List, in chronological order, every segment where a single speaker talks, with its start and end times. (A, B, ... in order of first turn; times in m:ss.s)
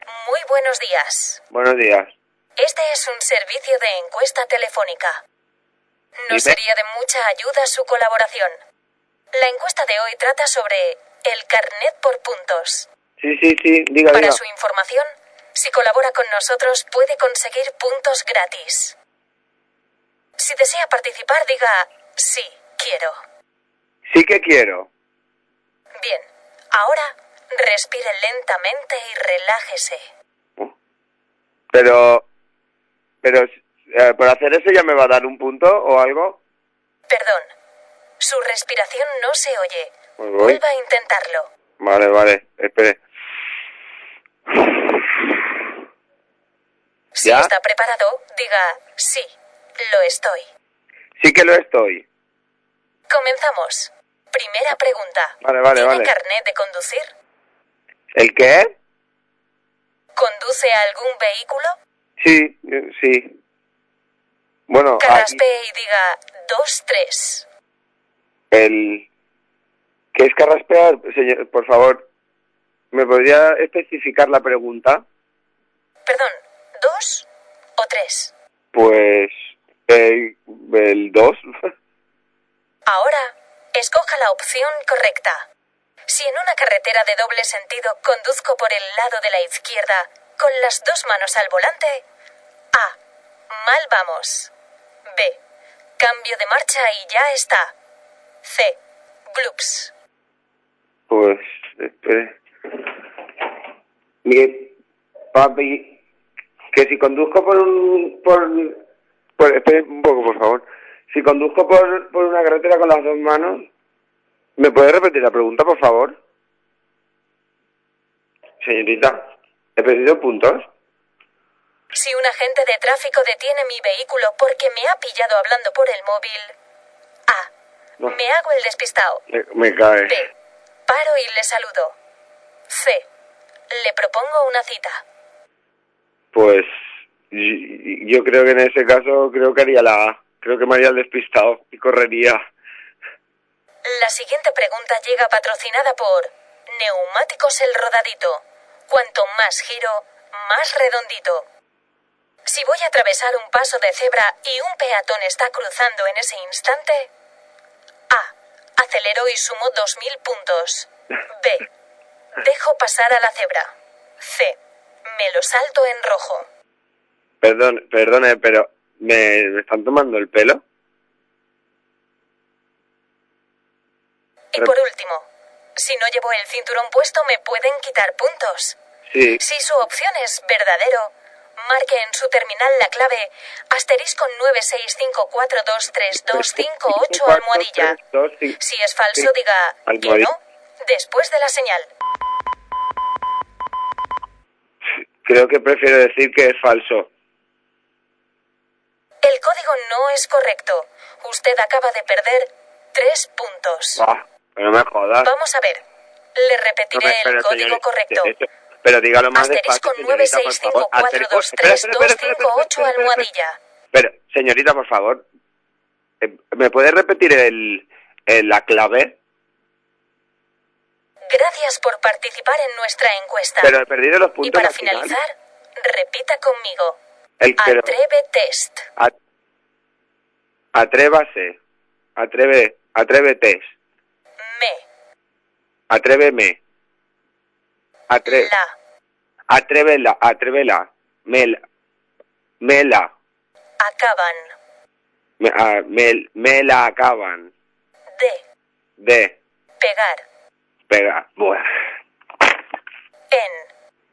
0:00.1-0:01.4 A
0:01.5-0:02.1 B
0:02.6-0:05.2 A
0:06.2-0:08.6 A
0:06.3-0:06.6 B
0:09.3-0:12.9 A
0:13.2-0:14.4 B
0:14.1-0:19.0 A
0:20.4-0:23.2 A
0:24.1-0:24.9 B
0:26.0-0:30.1 A
0:31.7-0:32.3 B
0:33.2-0:36.4 B
0:37.1-0:37.5 A
0:38.2-0:41.5 A
0:40.2-0:40.6 B
0:41.8-0:43.0 B
0:44.5-0:45.5 B
0:47.1-0:50.5 A
0:47.2-0:47.5 B
0:51.2-0:52.0 B
0:53.1-0:57.1 A
0:55.4-0:56.1 B
0:58.1-0:58.7 B
1:00.2-1:01.8 A
1:02.2-1:03.3 B
1:04.7-1:05.4 B
1:05.0-1:07.4 A
1:08.5-1:09.1 B
1:10.1-1:12.0 B
1:12.9-1:15.0 B
1:16.0-1:18.3 A
1:18.7-1:19.3 B
1:19.9-1:21.4 B
1:22.9-1:25.4 A
1:26.1-1:32.0 A
1:33.5-1:34.5 A
1:35.1-1:35.4 A
1:36.0-1:37.7 A
1:38.4-1:38.8 A
1:39.3-1:39.9 A
1:41.1-1:42.9 B
1:44.2-1:44.7 B
1:45.3-1:45.9 B
1:46.7-1:48.8 B
1:49.4-1:53.6 B
1:54.6-1:56.2 B
1:58.6-1:59.2 B
1:59.8-2:00.7 B
2:01.9-2:06.5 A
2:08.0-2:09.2 A
2:09.3-2:10.2 B
2:10.9-2:12.0 A
2:12.7-2:13.0 A
2:13.7-2:15.0 A
2:16.3-2:16.7 B
2:17.3-2:22.4 B
2:23.8-2:31.4 A
2:32.4-2:37.1 A
2:38.1-2:41.6 A
2:42.4-2:46.5 A
2:47.4-2:50.6 B
2:54.5-2:58.8 A
2:59.1-2:59.4 B
2:59.4-3:08.0 A
3:06.3-3:08.6 B
3:08.6-3:11.9 A
3:09.9-3:10.3 B
3:15.2-3:17.1 B
3:19.2-3:24.0 A
3:24.0-3:25.3 B
3:25.2-3:25.8 A
3:26.4-3:28.3 A
3:26.9-3:33.3 B
3:29.3-3:33.6 A
3:33.9-3:35.2 B
3:36.2-3:39.2 B
3:41.3-3:43.7 A
3:43.6-3:45.2 B
3:44.4-3:47.0 A
3:47.4-3:48.0 B
3:47.6-3:48.9 A
3:50.7-3:51.6 B
3:52.2-3:53.7 B
3:54.5-3:54.8 A
3:55.9-3:56.6 B
3:58.1-3:58.5 B
3:58.2-3:58.7 A
3:59.5-4:01.6 B
4:02.6-4:03.1 B
4:03.8-4:04.5 A
4:05.4-4:07.5 B
4:08.1-4:08.4 A
4:09.0-4:09.4 B
4:09.8-4:10.2 A
4:10.9-4:11.6 B
4:13.3-4:13.7 A